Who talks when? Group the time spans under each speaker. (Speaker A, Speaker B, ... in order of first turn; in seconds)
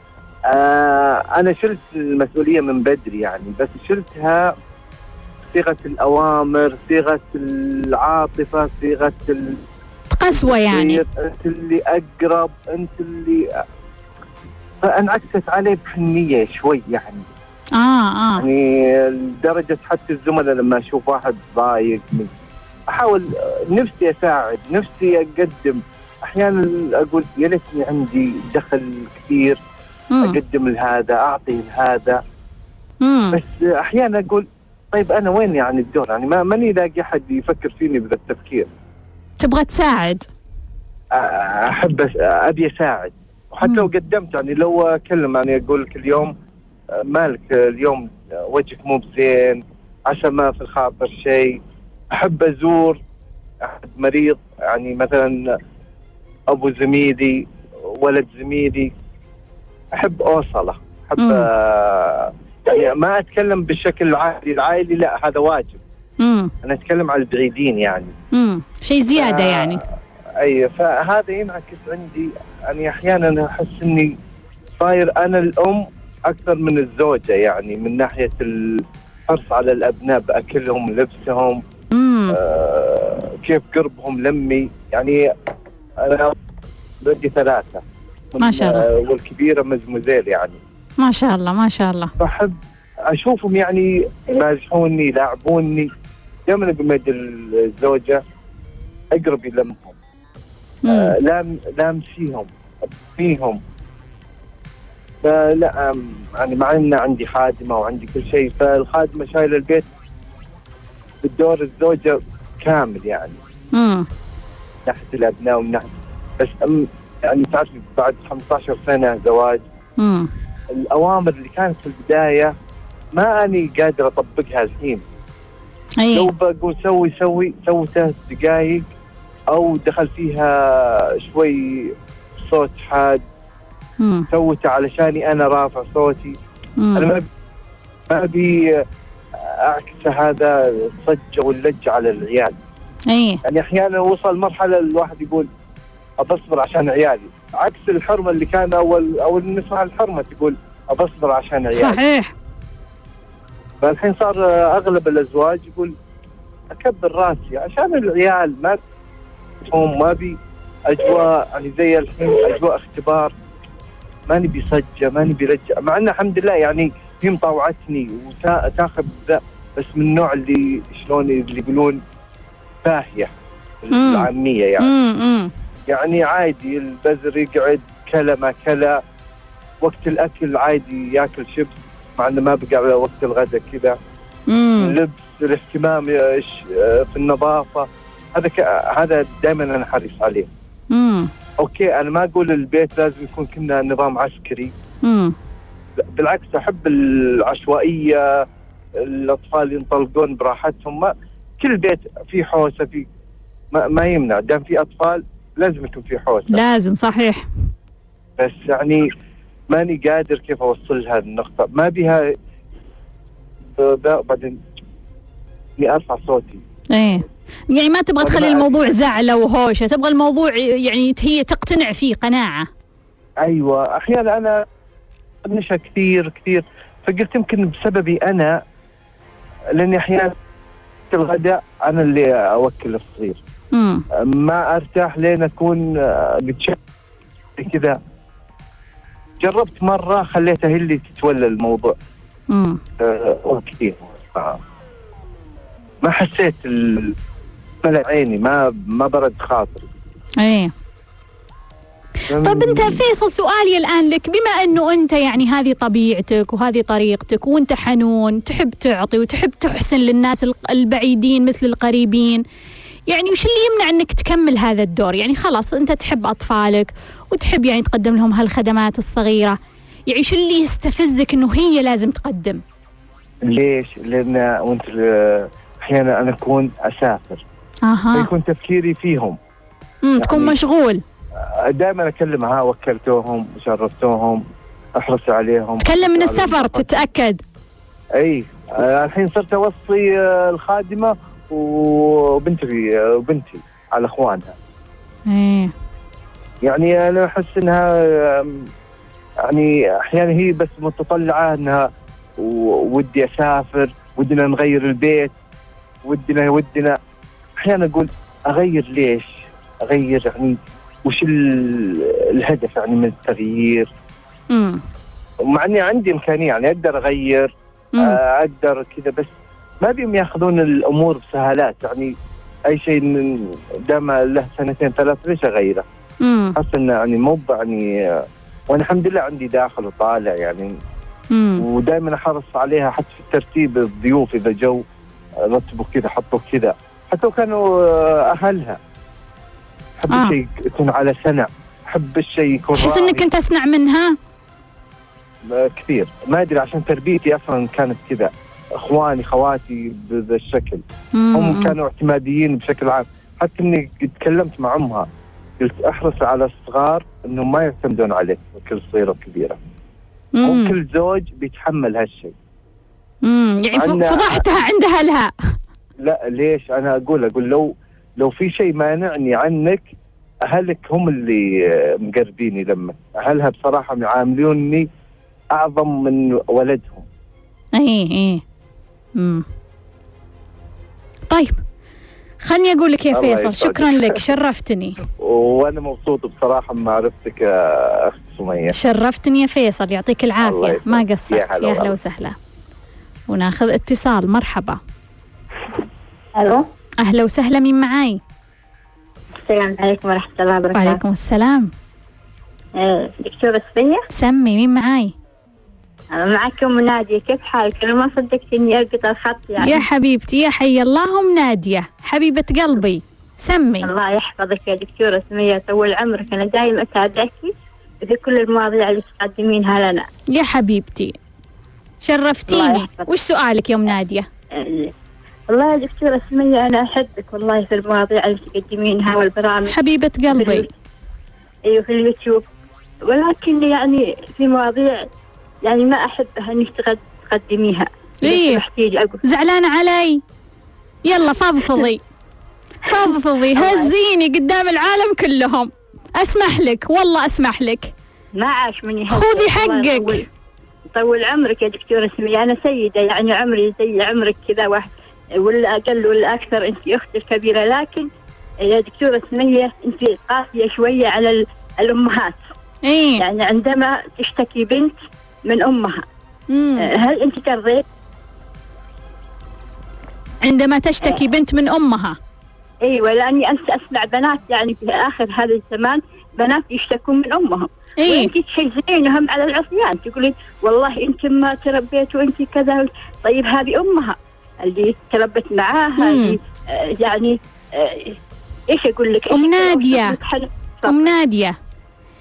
Speaker A: 0.5-4.5, 5.5-9.6, 10.3-13.5, 14.8-17.2, 18.4-22.3, 22.9-29.6, 30.2-32.2, 33.3-38.7, 41.1-46.3, 46.9-51.6, 52.1-53.0, 53.6-55.5, 56.5-58.9, 59.9-65.8, 66.6-68.1, 69.1-69.8, 70.4-74.2, 74.8-81.6, 82.3-85.3, 86.0-86.4, 87.0-87.8, 88.3-90.6, 92.2-92.5, 93.1-95.9, 96.5-98.2, 99.1-100.0, 100.8-102.5, 103.1-103.6, 105.2-109.9, 111.2-113.4, 114.8-115.8, 116.4-119.6, 120.8-122.5, 123.1-125.0, 126.1-128.8, 129.5-133.2, 134.3-136.3, 136.9-137.3, 138.1-138.8, 139.3-142.6, 143.4-145.5, 146.2-152.0, 153.8-155.9, 156.7-158.8, 159.6-163.3, 164.3-172.0, 172.8-173.3, 173.8-174.9, 175.9-179.0, 179.8-184.0, 184.8-190.5, 191.6-194.7, 196.0-198.4, 198.9-203.1, 203.7-206.6, 208.4-209.1, 209.7-212.3, 213.8-214.6, 215.8-216.6, 218.2-218.9, 223.4-224.6, 225.4-228.6, 229.7-230.3, 231.1-233.4, 234.1-236.8, 237.6-238.0, 239.4-241.9, 243.0-244.6, 246.0-247.2, 247.8-249.9, 252.3-253.0, 273.4-277.4, 278.1-279.4, 280.2-280.6, 281.4-284.4, 284.9-287.0, 288.1-294.5, 296.6-298.6, 299.4-301.9, 302.4-305.3, 306.0-307.0, 307.6-313.9, 315.5-319.3, 319.8-322.1, 322.7-325.8, 326.6-330.7, 331.6-334.8, 335.4-338.8, 340.0-343.2, 345.5-355.1, 355.6-359.6, 360.4-362.3, 363.7-364.4, 366.0-369.9, 370.5-374.9, 375.5-377.1, 383.1-384.2, 385.2-388.7, 390.4-392.0
Speaker B: 10.1-11.0, 17.8-18.4, 30.1-30.4, 33.0-33.4, 39.4-40.3, 61.2-61.5, 66.2-66.5, 68.3-69.8, 81.9-82.4, 88.4-88.8, 91.0-92.1, 100.8-101.1, 113.7-114.1, 120.0-120.3, 126.0-126.3, 134.0-134.3, 136.8-137.1, 143.1-143.4, 151.7-152.3, 173.9-174.3, 174.8-175.5, 184.5-184.9, 190.9-191.3, 195.0-195.3, 206.5-207.4, 216.9-222.7, 233.7-234.0, 242.5-242.8, 250.4-250.7, 252.4-262.4, 263.1-272.6, 277.8-278.3, 280.0-281.0, 285.8-287.4, 295.3-295.7, 314.5-314.8, 326.2-326.6, 331.3-331.6, 340.1-340.4, 342.7-344.1, 351.1-351.7, 360.4-360.7, 363.2-365.3, 377.7-378.4, 379.1-379.4, 381.3-381.6, 382.4-385.0, 388.7-392.4, 393.3-394.8, 397.0-398.2, 400.7-401.7, 404.1-405.1, 409.6-413.9, 420.3-421.1, 422.0-424.3, 429.7-430.7, 438.2-438.6, 439.2-440.2, 441.0-442.0, 442.8-447.9, 449.1-450.2, 462.8-463.2, 466.5-466.9, 470.4-472.2, 478.0-478.3, 486.0-486.4, 489.3-490.2, 490.9-491.6
Speaker C: 396.3-396.7, 399.4-401.0, 402.8-404.1, 406.1-409.8, 413.8-420.1, 422.5-423.1, 424.5-424.9, 425.5-429.7, 430.3-430.7, 431.6-432.4, 433.0-435.1, 435.6-439.2, 443.5-443.9, 448.3-450.2, 450.9-458.1, 458.6-462.4, 463.2-466.0, 466.8-467.8, 472.8-488.2, 488.7-491.1